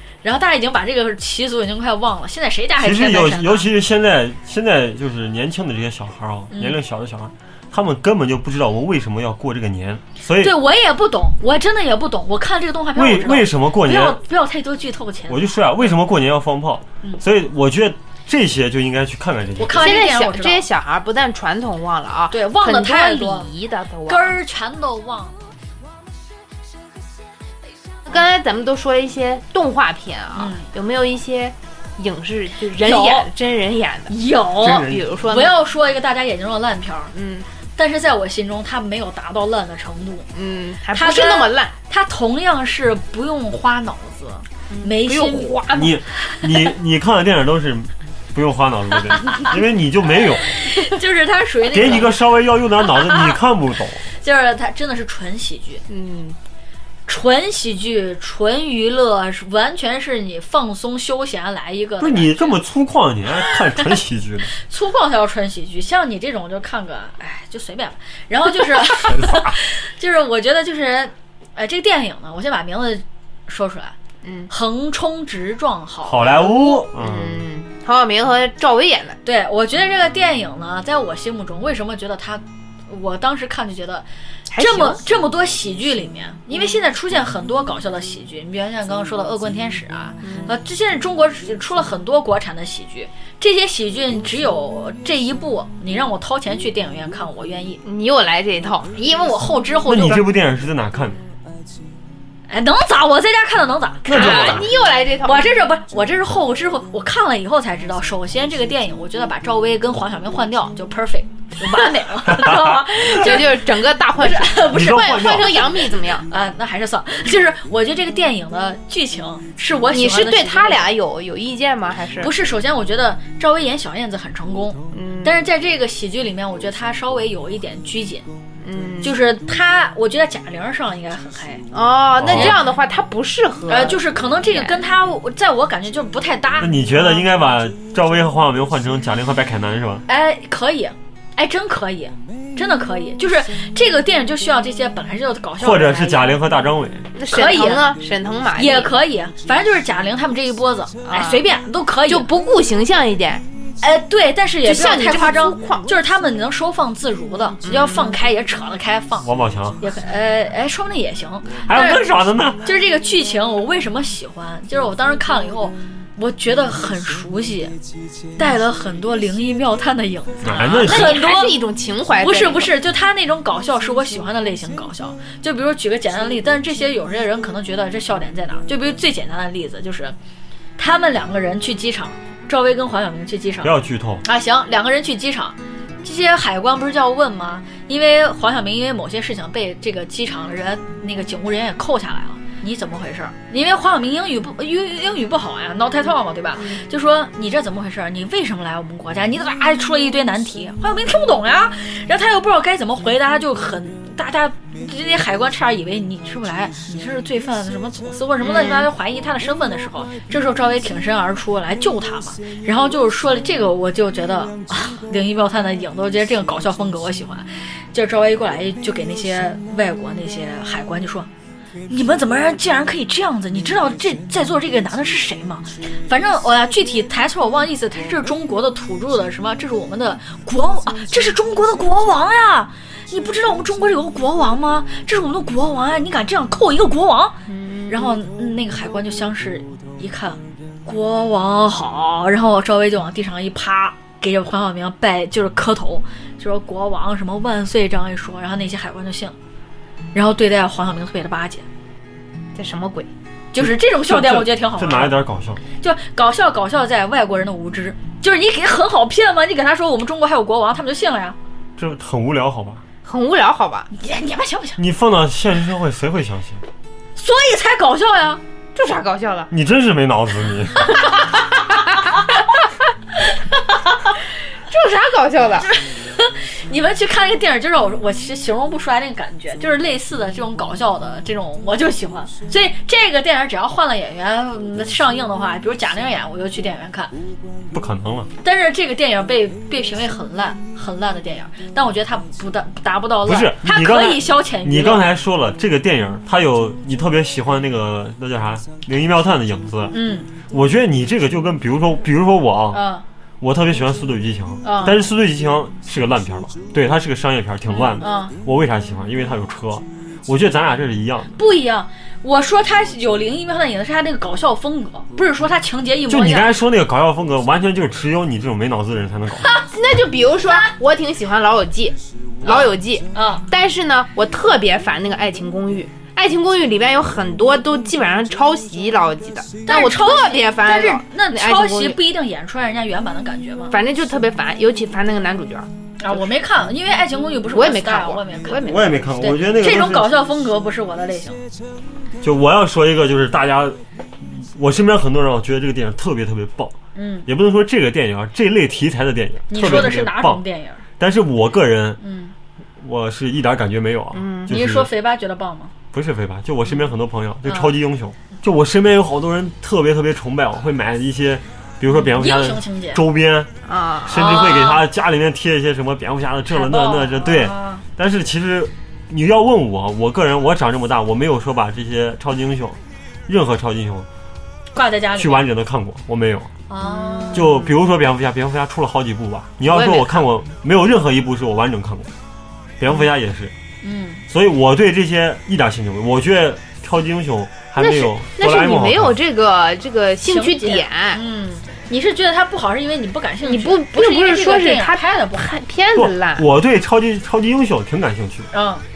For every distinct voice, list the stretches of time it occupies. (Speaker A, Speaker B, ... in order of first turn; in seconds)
Speaker A: 0.2-3.7, 6.5-6.8, 10.4-15.9, 19.6-20.6, 22.3-23.5, 24.1-25.4, 30.4-30.7, 32.8-33.3, 34.1-37.1, 37.8-40.3, 40.9-45.6, 49.2-49.5, 50.4-52.1, 53.0-53.4, 54.1-55.8, 57.1-62.5, 64.5-74.0, 74.5-76.8, 79.2-84.1, 84.6-97.8, 99.0-100.2, 102.5-104.6, 105.2-120.9, 122.2-128.3, 129.0-131.7, 132.3-132.6, 133.7-136.8, 140.1-146.4, 147.3-147.9, 148.6-152.3, 153.8-162.1, 162.6-167.8, 168.4-171.6, 172.2-180.1, 180.8-183.7, 184.2-221.3, 221.9-237.4, 237.9-249.3, 250.1-251.6, 253.5-255.2, 255.8-261.4, 263.9-264.8, 267.1-268.4, 273.5-274.1, 275.6-287.1, 288.4-295.1, 299.9-300.3, 302.7-303.0, 304.6-305.0, 307.7-308.3, 311.4-316.5, 322.4-323.5, 329.6-333.8, 336.0-338.7, 339.2-341.4, 346.9-347.3, 349.5-350.8, 352.0-352.3, 354.5-355.7, 357.4-357.8, 362.1-363.0, 364.1-364.8, 366.5-367.8, 374.7-375.5, 376.7-377.5, 383.8-384.2, 390.2-395.5, 398.5-398.8
Speaker B: 2.8-10.6, 13.0-14.2, 15.3-19.9, 34.6-35.0, 45.7-50.5, 51.7-54.1, 62.0-64.5, 69.1-69.5, 76.1-77.4, 99.9-101.2, 104.1-104.7, 112.3-112.7, 114.7-115.7, 132.2-132.6, 136.6-140.0, 145.6-147.1, 159.2-159.8, 161.6-162.6, 170.4-171.2, 183.6-184.2, 253.6-255.6, 261.8-262.8, 264.8-266.6, 269.5-271.1, 287.7-288.3, 293.3-300.0, 300.5-302.8, 303.4-311.3, 316.1-319.5, 338.6-340.1, 342.2-346.8, 347.3-350.4, 351.0-352.0, 352.8-354.9, 355.9-363.5, 364.1-374.1, 375.2-376.5, 377.3-382.1, 382.8-383.5, 384.3-389.1, 395.9-398.5
Speaker C: 19.7-24.4, 28.1-34.1, 34.6-35.5, 37.1-37.5, 40.3-41.8, 44.7-46.0, 55.9-56.4, 74.2-74.5, 77.0-79.2, 84.5-85.0, 90.2-90.5, 97.8-98.9, 104.1-105.5, 112.9-116.3, 119.9-122.3, 124.9-125.4, 128.6-129.1, 131.7-134.8, 147.1-148.9, 151.1-151.5, 152.1-153.4, 154.6-155.9, 157.6-158.2, 170.5-172.7, 208.4-208.9, 237.5-238.1, 252.6-253.1, 263.1-263.9, 268.8-269.5, 274.7-275.7, 319.6-332.0, 333.7-336.3, 337.5-339.2, 354.1-354.5, 363.6-364.4, 376.8-377.7, 379.7-380.3, 387.8-391.2, 393.4-396.5